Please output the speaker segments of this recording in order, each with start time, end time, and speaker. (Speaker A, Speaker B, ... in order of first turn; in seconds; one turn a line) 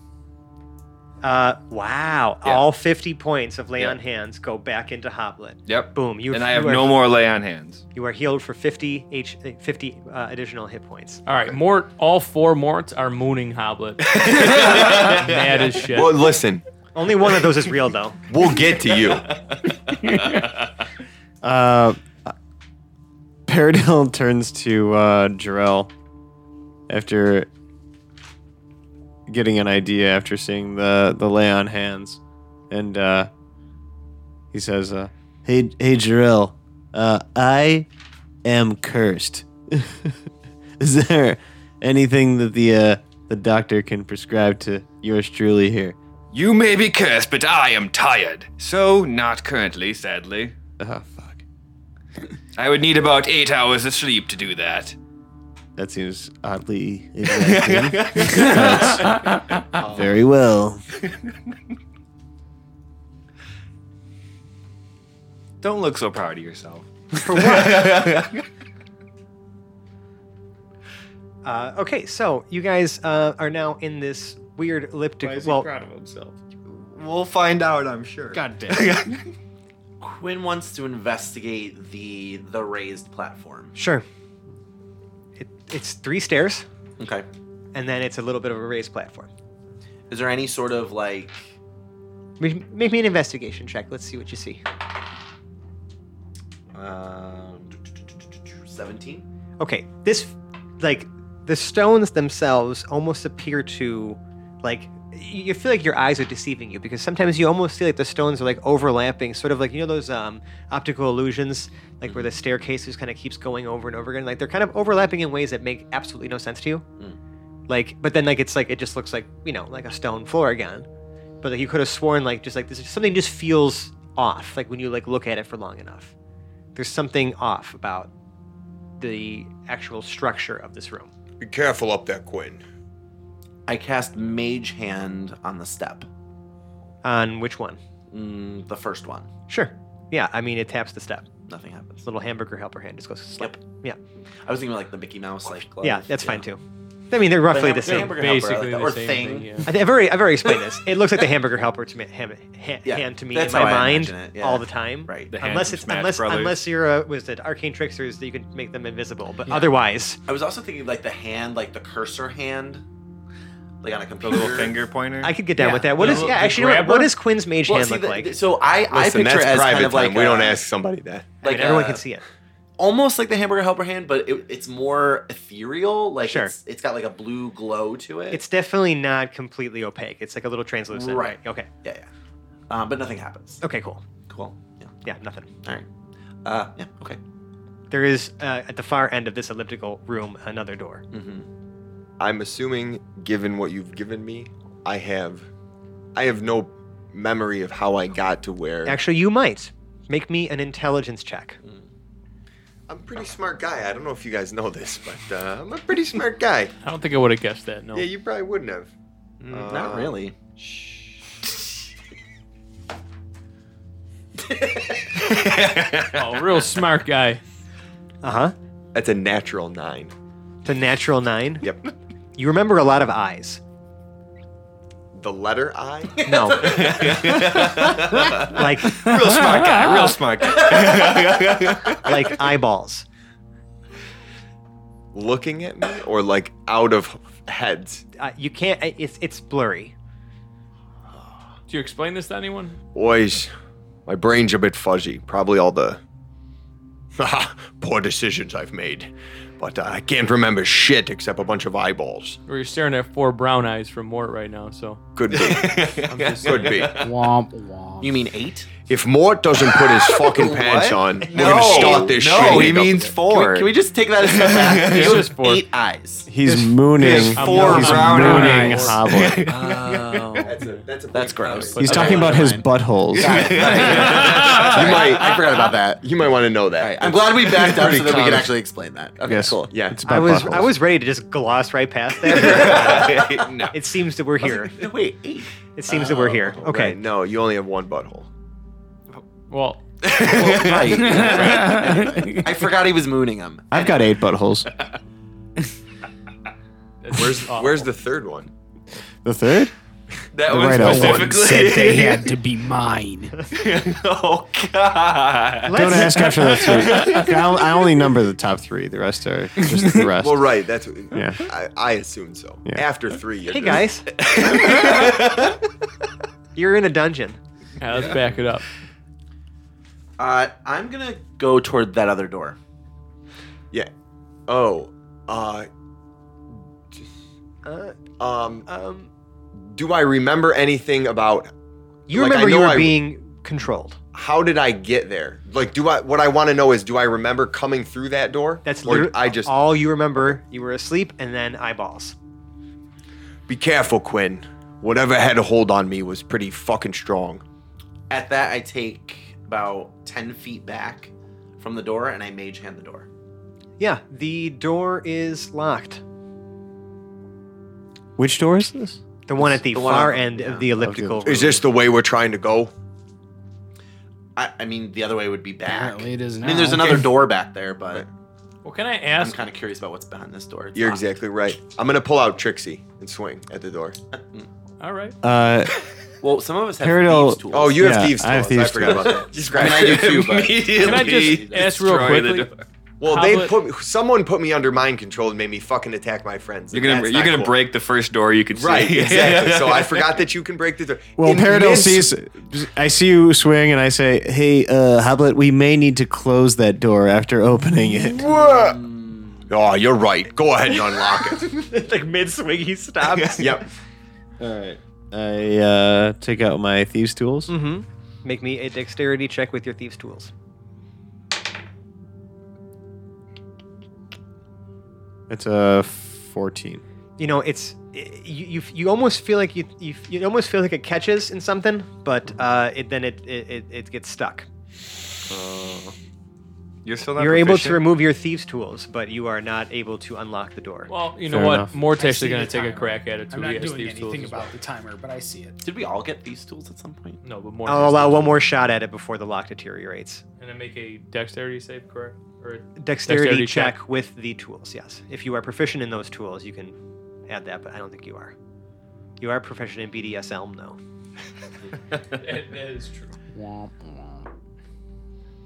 Speaker A: 1.2-7.0
Speaker B: 5.7-7.8
Speaker A: 8.0-11.2
Speaker C: 11.3-16.4
Speaker B: 14.0-15.3
Speaker D: 14.8-16.6
Speaker A: 16.9-18.2
Speaker D: 18.3-19.3
Speaker B: 18.9-20.6
Speaker E: 21.4-22.3
Speaker E: 23.5-25.9
Speaker E: 26.9-27.5
Speaker E: 29.3-33.3
Speaker E: 34.5-37.9
Speaker E: 38.4-40.2
Speaker E: 40.8-46.0
Speaker B: 46.3-50.5
Speaker E: 50.8-51.4
Speaker B: 52.6-55.0
Speaker E: 55.8-59.3
Speaker B: 57.3-59.4
Speaker D: 59.8-60.1
Speaker E: 59.9-60.8
Speaker B: 65.6-68.4
Speaker A: 67.2-68.1
Speaker A: 71.4-75.7
Speaker E: 75.2-76.3
Speaker B: 76.7-79.2
Speaker F: 78.3-79.0
Speaker G: 80.0-83.8
Speaker A: 83.8-84.0
Speaker A: 85.4-86.7
Speaker G: 87.0-87.3
Speaker A: 87.7-89.3
Speaker G: 90.1-91.4
Speaker A: 92.4-94.6
Speaker G: 96.7-97.9
Speaker G: 98.7-99.3
Speaker A: 99.6-116.8
Speaker A: 117.7-120.9
Speaker A: 121.4-126.1
Speaker A: 126.8-128.1
Speaker A: 129.0-131.1
Speaker D: 131.4-132.6
Speaker G: 133.7-136.1
Speaker A: 137.0-137.8
Speaker G: 138.1-139.3
Speaker A: 139.5-141.3
Speaker G: 141.5-142.0
Speaker A: 142.0-144.0
Speaker G: 144.4-146.5
Speaker A: 145.8-146.6
Speaker A: 147.1-148.2
Speaker G: 147.4-149.7
Speaker C: 147.9-149.7
Speaker A: 149.7-160.2
Speaker G: 152.8-155.3
Speaker B: 155.3-156.6
Speaker G: 160.3-162.8
Speaker G: 163.8-164.8
Speaker B: 164.2-165.4
Speaker A: 165.2-168.3
Speaker G: 165.6-166.3
Speaker C: 166.0-167.1
Speaker G: 167.7-170.6
Speaker D: 168.9-171.4
Speaker G: 171.4-172.1
Speaker A: 171.4-172.2
Speaker G: 172.8-178.4
Speaker A: 176.2-176.5
Speaker A: 178.3-181.7
Speaker G: 180.9-182.1
Speaker G: 182.7-183.6
Speaker A: 183.6-184.0
Speaker G: 184.3-184.9
Speaker A: 185.1-185.5
Speaker G: 186.4-187.2
Speaker A: 187.9-191.0
Speaker G: 191.1-191.5
Speaker D: 192.2-195.5
Speaker D: 196.2-199.0
Speaker A: 198.9-201.6
Speaker D: 202.9-206.7
Speaker C: 206.8-208.1
Speaker D: 207.9-208.9
Speaker G: 209.4-210.3
Speaker D: 209.5-211.0
Speaker B: 215.2-216.4
Speaker C: 216.1-217.4
Speaker A: 218.2-218.5
Speaker D: 218.9-220.1
Speaker A: 220.7-221.7
Speaker A: 222.4-223.6
Speaker D: 225.1-226.5
Speaker G: 226.2-228.5
Speaker B: 226.5-232.2
Speaker A: 228.5-229.0
Speaker G: 229.8-231.6
Speaker A: 232.0-233.1
Speaker D: 235.1-238.0
Speaker A: 238.2-239.9
Speaker C: 241.7-242.8
Speaker D: 242.9-243.5
Speaker D: 244.1-246.0
Speaker D: 247.2-252.4
Speaker C: 252.5-255.0
Speaker D: 255.2-257.1
Speaker B: 255.3-257.1
Speaker F: 257.0-258.1
Speaker G: 258.0-258.7
Speaker D: 258.9-263.1
Speaker B: 259.7-265.3
Speaker G: 260.4-266.3
Speaker C: 264.7-265.7
Speaker E: 266.3-269.5
Speaker B: 266.9-270.5
Speaker C: 267.3-269.1
Speaker G: 269.5-270.6
Speaker D: 270.4-272.3
Speaker G: 271.1-276.0
Speaker C: 271.8-272.3
Speaker E: 271.8-273.5
Speaker B: 273.2-275.4
Speaker D: 274.6-278.4
Speaker G: 276.8-279.8
Speaker B: 277.6-278.5
Speaker E: 279.3-280.8
Speaker D: 279.7-280.4
Speaker A: 280.0-284.8
Speaker G: 282.4-283.5
Speaker B: 282.4-283.8
Speaker G: 284.4-286.7
Speaker A: 285.8-287.0
Speaker D: 286.6-288.3
Speaker C: 289.5-289.8
Speaker B: 290.0-291.7
Speaker G: 290.1-294.0
Speaker F: 291.2-292.0
Speaker E: 293.7-294.7
Speaker C: 297.0-297.9
Speaker D: 297.1-298.5
Speaker E: 299.2-299.7
Speaker B: 300.3-302.4
Speaker E: 300.5-301.5
Speaker F: 300.7-303.4
Speaker B: 303.5-307.7
Speaker A: 305.6-306.6
Speaker E: 305.7-310.6
Speaker D: 310.1-313.9
Speaker E: 311.1-311.4
Speaker A: 313.5-314.1
Speaker B: 314.2-315.5
Speaker A: 316.6-317.4
Speaker C: 317.8-318.7
Speaker G: 320.2-322.6
Speaker D: 324.5-325.7
Speaker A: 327.6-328.0
Speaker D: 328.2-328.7
Speaker A: 328.7-329.1
Speaker D: 329.6-331.5
Speaker A: 332.1-334.0
Speaker D: 332.1-333.0
Speaker D: 334.1-339.6
Speaker A: 338.6-342.1
Speaker D: 343.5-347.4
Speaker G: 348.1-353.1
Speaker A: 353.8-356.0
Speaker E: 358.2-359.0
Speaker A: 359.3-361.6
Speaker G: 359.4-360.7
Speaker E: 360.8-361.6
Speaker D: 361.2-362.7
Speaker G: 364.4-368.1
Speaker F: 365.7-367.1
Speaker C: 368.6-369.4
Speaker G: 369.2-371.1
Speaker D: 370.7-374.0
Speaker C: 374.8-375.2
Speaker E: 375.2-375.7
Speaker G: 376.2-378.0
Speaker E: 376.8-379.2
Speaker D: 377.5-380.0
Speaker G: 378.8-381.5
Speaker B: 379.3-382.6
Speaker C: 380.8-382.5
Speaker D: 383.0-387.6
Speaker C: 383.0-383.6
Speaker B: 386.7-390.2
Speaker D: 388.5-392.1
Speaker E: 391.2-398.3
Speaker D: 398.2-398.8
Speaker G: 398.2-399.5
Speaker D: 399.5-401.5
Speaker A: 401.3-403.6
Speaker D: 403.4-403.7
Speaker E: 404.4-407.5
Speaker A: 407.5-410.3
Speaker E: 415.3-416.8
Speaker A: 417.2-424.5
Speaker E: 425.3-425.9
Speaker B: 426.9-427.9
Speaker A: 427.2-430.9
Speaker C: 430.9-434.5
Speaker E: 431.3-431.7
Speaker F: 431.9-435.6
Speaker G: 435.6-437.2
Speaker C: 437.2-438.4
Speaker A: 437.7-440.2
Speaker C: 440.4-443.8
Speaker A: 442.8-446.8
Speaker A: 447.3-448.4
Speaker A: 449.2-450.8
Speaker C: 452.1-453.1
Speaker F: 453.3-454.3